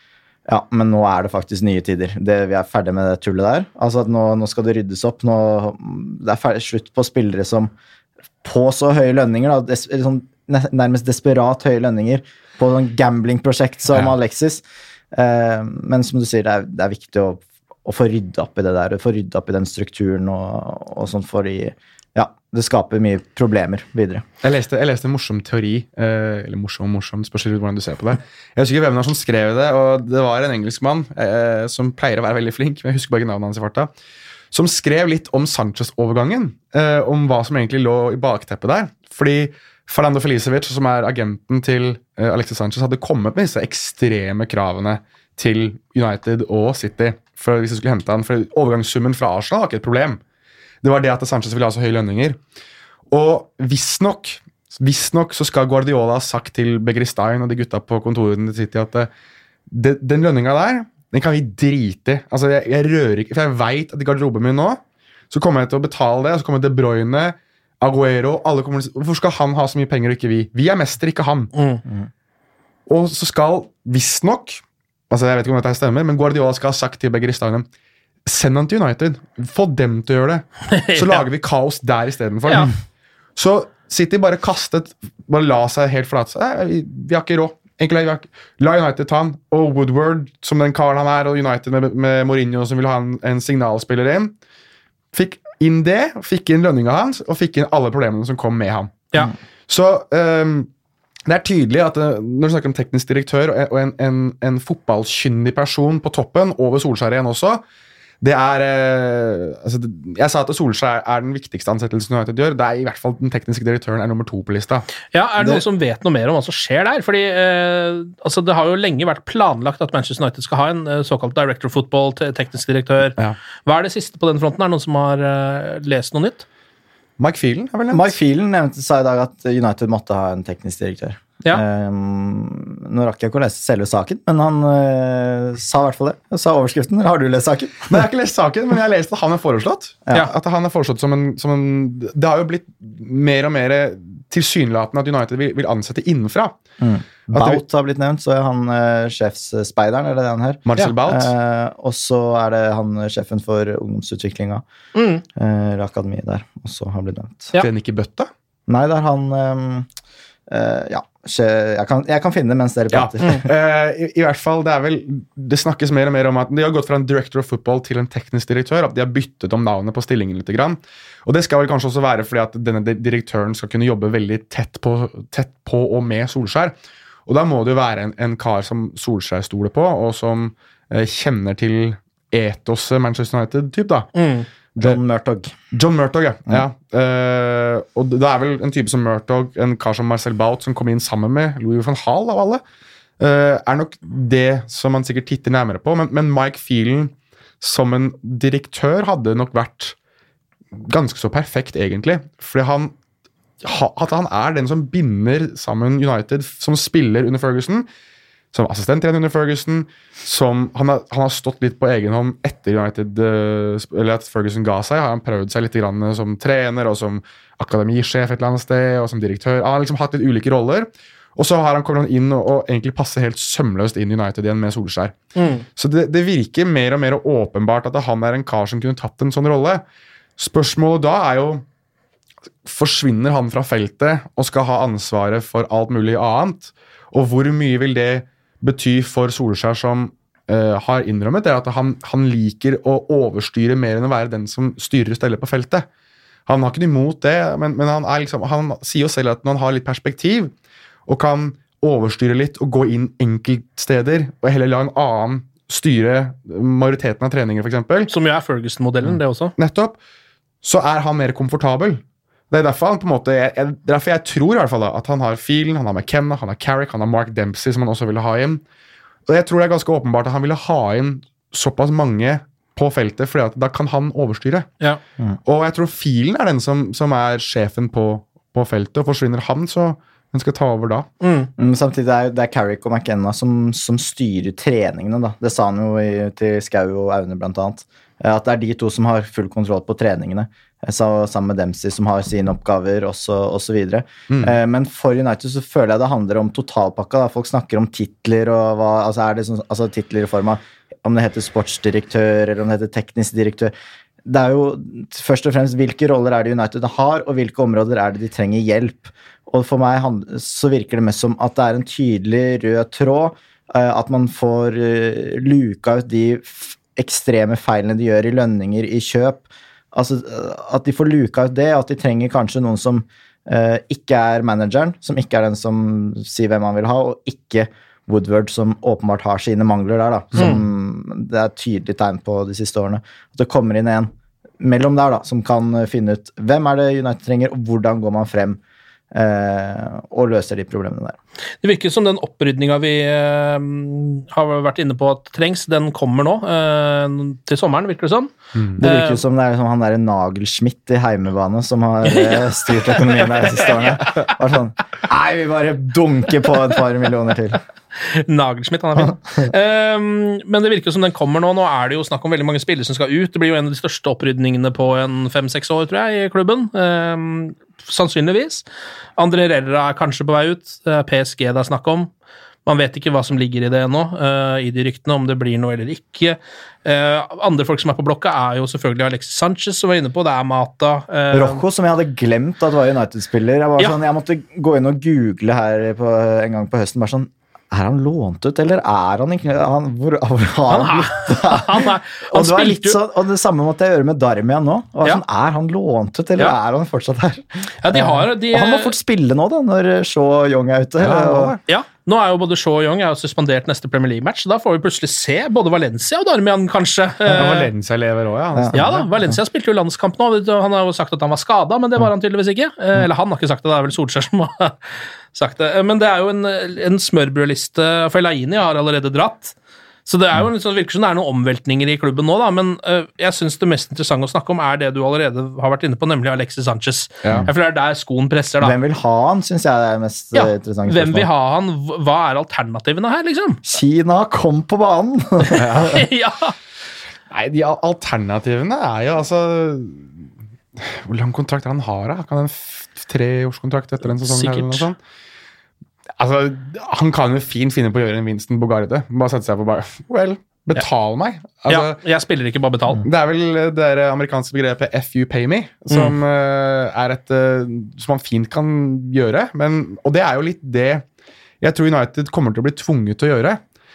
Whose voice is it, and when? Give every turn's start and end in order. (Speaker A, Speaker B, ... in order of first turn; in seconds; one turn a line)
Speaker A: 0.5-7.7
Speaker A: 8.4-24.2
Speaker B: 24.4-33.9
Speaker B: 34.5-50.2
Speaker B: 50.8-52.4
Speaker B: 53.1-59.1
Speaker B: 59.7-64.8
Speaker B: 65.3-71.5
Speaker C: 71.5-71.8
Speaker B: 72.9-77.7
Speaker B: 78.2-82.8
Speaker C: 80.7-81.2
Speaker C: 82.5-82.7
Speaker B: 83.4-94.3
Speaker B: 95.1-99.0
Speaker B: 99.7-100.7
Speaker B: 101.3-107.6
Speaker B: 108.2-114.9
Speaker C: 115.1-126.5
Speaker B: 127.2-128.1
Speaker A: 127.9-138.1
Speaker B: 137.9-146.6
Speaker A: 146.8-154.6
Speaker B: 147.3-147.6
Speaker B: 150.7-151.3
Speaker C: 154.9-155.2
Speaker A: 155.3-157.5
Speaker B: 157.6-158.3
Speaker A: 158.7-159.9
Speaker A: 160.5-163.5
Speaker B: 162.9-176.8
Speaker B: 177.3-184.1
Speaker C: 184.2-184.5
Speaker A: 184.8-185.6
Speaker B: 185.7-192.6
Speaker B: 193.2-200.0
Speaker B: 200.8-202.9
Speaker B: 203.6-207.9
Speaker B: 208.5-225.2
Speaker C: 225.4-225.7
Speaker B: 225.8-229.8
Speaker B: 230.4-231.7
Speaker B: 232.7-245.9
Speaker B: 246.5-250.5
Speaker B: 251.1-258.1
Speaker C: 258.1-259.5
Speaker B: 259.1-260.0
Speaker B: 260.6-268.6
Speaker B: 269.3-274.7
Speaker B: 275.5-281.1
Speaker C: 281.2-281.5
Speaker A: 281.6-303.7
Speaker B: 294.3-294.6
Speaker A: 304.2-338.6
Speaker A: 339.1-341.2
Speaker C: 341.6-349.2
Speaker B: 348.6-348.8
Speaker A: 348.8-357.6
Speaker C: 352.1-354.0
Speaker C: 358.0-368.6
Speaker C: 369.2-372.1
Speaker C: 372.7-381.6
Speaker A: 381.3-401.6
Speaker C: 390.7-393.0
Speaker C: 397.8-398.9
Speaker B: 401.0-401.6
Speaker C: 401.7-407.7
Speaker B: 407.4-409.1
Speaker A: 408.6-409.4
Speaker C: 408.7-419.6
Speaker C: 420.1-428.8
Speaker A: 428.6-431.3
Speaker C: 430.3-433.6
Speaker A: 433.6-435.9
Speaker B: 435.6-436.0
Speaker C: 435.8-436.6
Speaker B: 437.3-440.2
Speaker B: 440.8-445.0
Speaker C: 444.1-444.9
Speaker B: 446.2-452.0
Speaker C: 451.7-453.0
Speaker B: 453.0-461.1
Speaker B: 461.6-463.6